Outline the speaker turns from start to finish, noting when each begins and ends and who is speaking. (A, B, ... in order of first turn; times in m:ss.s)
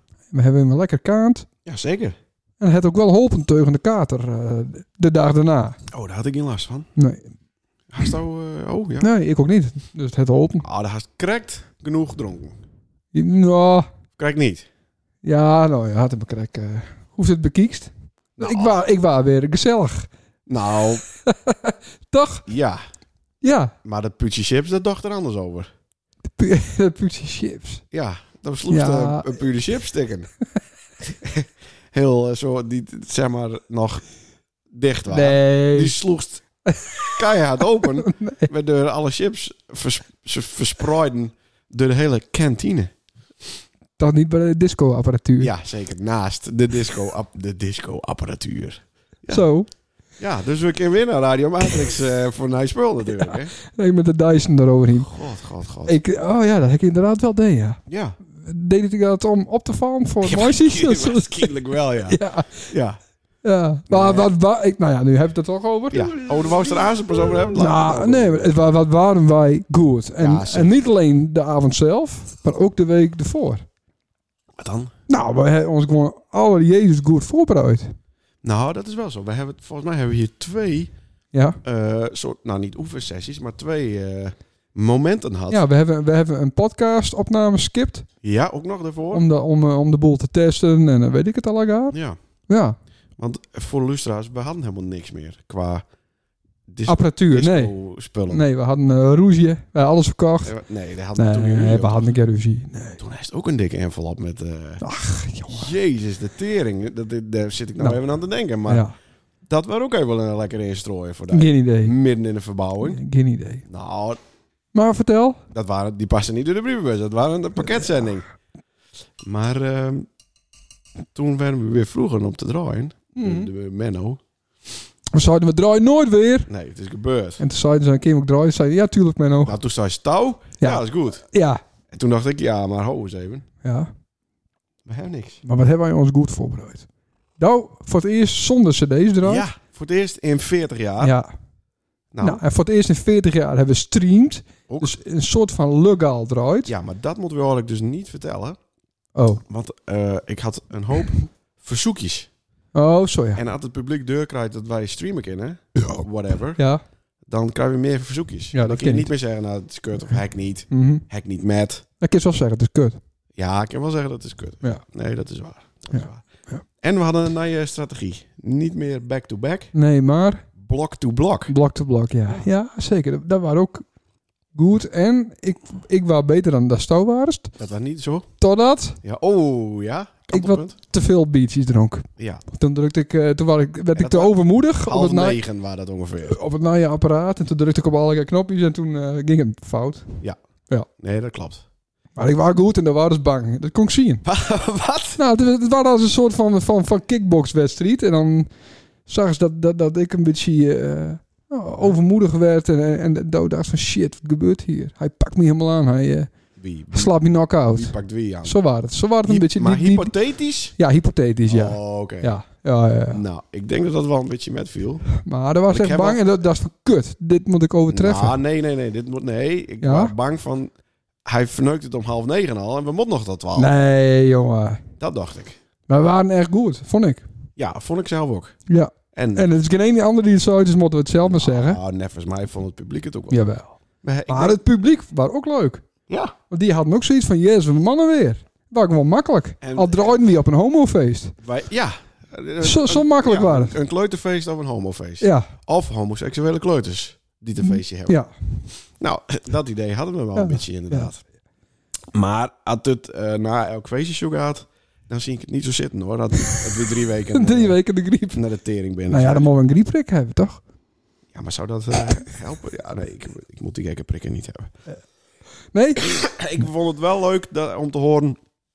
0:00.3-0:01.5 A
0:01.6-0:02.2 B
0:02.6-0:05.8 A
0:05.9-0:06.9 B
0:07.0-0:07.3 A
0:07.9-0:09.1 B
0:09.0-0:10.7 A
0:10.6-0:12.6 B
0:13.1-0:13.9 A
0:14.2-0:14.7 B
0:15.2-0:20.1 A
0:18.4-0:18.8 B
0:20.5-0:21.0 B
0:21.2-0:22.4 A
0:22.5-0:22.8 B
0:23.4-0:23.7 A
0:23.8-0:25.7 B
0:26.4-0:27.8 A
0:27.9-0:30.3 B
0:28.7-0:29.4 A
0:31.0-0:34.0 B
0:34.7-0:36.4 B
0:35.1-0:36.0 A
0:36.7-0:37.1 A
0:37.0-0:42.9 B
0:38.0-0:38.5 A
0:44.0-0:45.5 A
0:45.4-0:49.4 B
0:49.3-0:49.7 A
0:50.2-0:53.5 B
0:53.7-0:55.1 A
0:55.0-0:56.0 B
0:55.8-0:57.8 A
0:57.9-0:58.2 B
0:58.3-1:01.5 A
1:00.2-1:03.0 B
1:02.1-1:02.7 A
1:03.4-1:06.1 A
1:03.9-1:04.3 B
1:05.9-1:08.6 B
1:07.5-1:13.6 A
1:10.2-1:10.8 B
1:14.6-1:14.9 B
1:15.1-1:17.9 A
1:18.4-1:20.9 B
1:21.3-1:21.6 A
1:21.6-1:25.6 B
1:25.5-1:28.1 A
1:28.2-1:29.2 B
1:29.1-1:32.8 A
1:31.9-1:32.2 B
1:33.2-1:35.8 B
1:36.7-1:38.4 B
1:36.8-1:37.7 A
1:38.3-1:40.5 A
1:40.4-1:42.1 B
1:41.2-1:43.0 A
1:43.0-1:44.8 B
1:44.8-1:45.7 A
1:45.5-1:48.8 B
1:48.6-1:48.9 A
1:49.4-1:53.0 B
1:51.3-1:51.9 A
1:52.8-1:53.6 A
1:53.6-1:54.2 B
1:54.7-1:55.4 A
1:55.5-1:58.3 B
1:57.6-1:58.0 A
1:59.2-2:00.1 B
2:01.1-2:04.2 B
2:03.2-2:03.5 A
2:05.1-2:06.5 A
2:06.5-2:07.4 B
2:07.4-2:09.6 A
2:09.4-2:11.2 B
2:10.6-2:11.6 A
2:11.9-2:13.4 B
2:13.6-2:13.9 A
2:14.8-2:15.4 B
2:15.4-2:16.8 A
2:17.4-2:19.5 A
2:19.2-2:21.1 B
2:21.0-2:21.3 A
2:22.1-2:22.4 B
2:22.2-2:26.7 A
2:24.7-2:25.0 B
2:26.6-2:28.6 B
2:29.2-2:29.4 A
2:29.5-2:32.3 B
2:32.7-2:33.4 A
2:33.4-2:36.6 B
2:36.6-2:36.8 A
2:37.3-2:41.8 B
2:38.5-2:39.1 A
2:40.7-2:41.0 A
2:42.0-2:43.0 A
2:43.4-2:46.2 B
2:45.9-2:46.6 A
2:46.8-2:49.7 B
2:49.7-2:50.4 A
2:50.6-2:51.5 B
2:51.5-2:53.8 A
2:54.5-2:57.5 A
2:57.6-2:58.3 B
2:58.4-2:59.0 A
2:59.0-3:00.8 B
3:00.3-3:05.4 A
3:02.2-3:02.4 B
3:03.9-3:06.4 B
3:06.2-3:10.9 A
3:10.9-3:11.6 B
3:12.2-3:14.2 A
3:14.2-3:15.2 B
3:15.2-3:18.5 A
3:19.0-3:26.3 A
3:26.6-3:28.6 B
3:26.9-3:30.1 A
3:29.2-3:30.7 B
3:30.8-3:33.2 A
3:31.5-3:32.4 B
3:33.1-3:36.2 B
3:35.2-3:38.4 A
3:37.9-3:40.7 B
3:39.8-3:40.1 A
3:41.2-3:43.7 B
3:43.6-3:44.8 A
3:45.0-3:45.6 B
3:45.9-3:47.2 A
3:47.6-3:48.6 B
3:48.7-3:51.8 A
3:49.1-3:49.5 B
3:51.2-3:53.4 B
3:53.3-3:53.8 A
3:54.0-3:54.6 B
3:54.3-3:55.8 A
3:56.1-3:56.3 B
3:56.5-4:01.4 A
3:59.6-4:00.4 B
4:01.4-4:08.2 B
4:02.6-4:03.7 A
4:05.2-4:05.5 A
4:07.6-4:08.6 A
4:08.9-4:11.2 B
4:10.4-4:11.1 A
4:12.1-4:19.5 B
4:17.3-4:18.4 A
4:19.1-4:20.6 A
4:21.3-4:24.7 B
4:25.7-4:26.1 A
4:26.0-4:28.4 B